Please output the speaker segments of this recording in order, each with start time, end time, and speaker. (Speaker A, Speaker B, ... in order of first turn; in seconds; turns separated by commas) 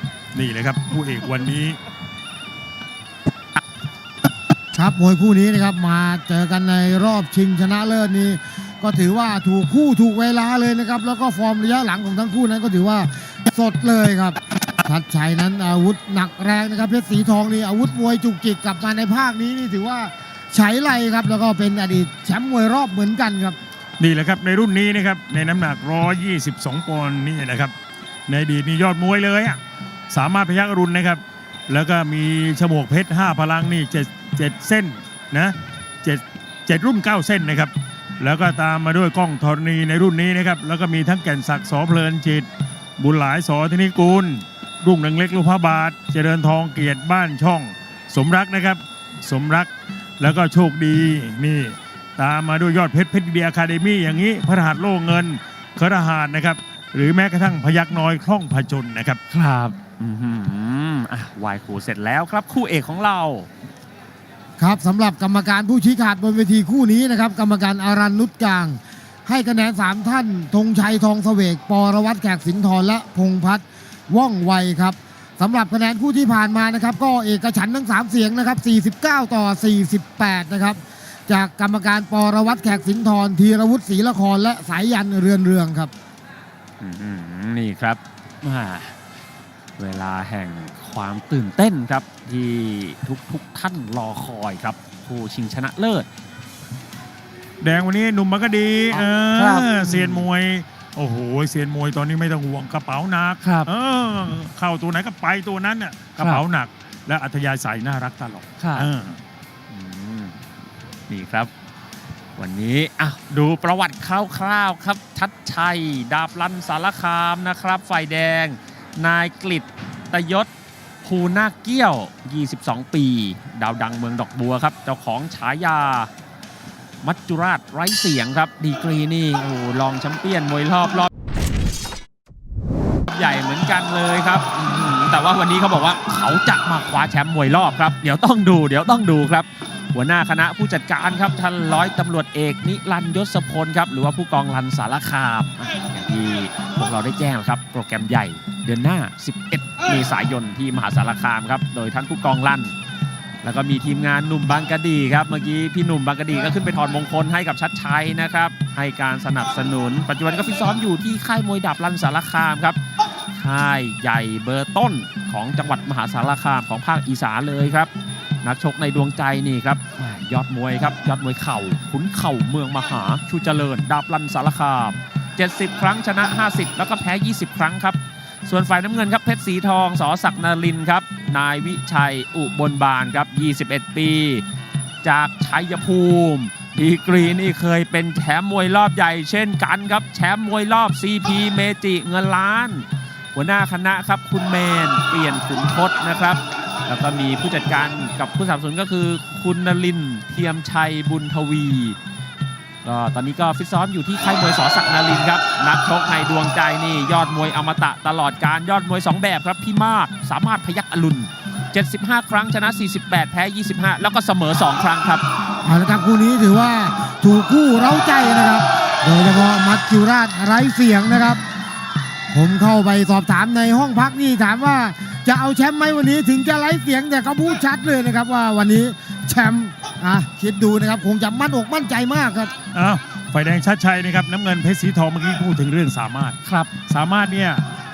Speaker A: 0.3-1.8, Speaker B: 4.7-23.6, Speaker A: 24.0-27.7, Speaker A: 28.3-42.5, Speaker A: 43.0-59.2, Speaker C: 59.3-63.5, Speaker B: 64.6-85.9, Speaker C: 86.8-88.9, Speaker C: 89.8-96.1, Speaker A: 97.6-109.2, Speaker C: 98.9-100.3, Speaker C: 103.4-103.7, Speaker C: 108.6-108.9, Speaker C: 109.7-110.4, Speaker C: 111.1-111.5, Speaker C: 112.4-120.5, Speaker C: 121.0-126.1, Speaker C: 127.0-131.1, Speaker C: 133.1-152.7, Speaker C: 153.4-162.8, Speaker C: 163.3-167.9, Speaker C: 168.4-184.4, Speaker C: 185.0-202.0, Speaker C: 202.8-215.2, Speaker B: 215.6-221.4, Speaker B: 222.3-232.5, Speaker A: 232.7-237.6, Speaker C: 236.4-236.7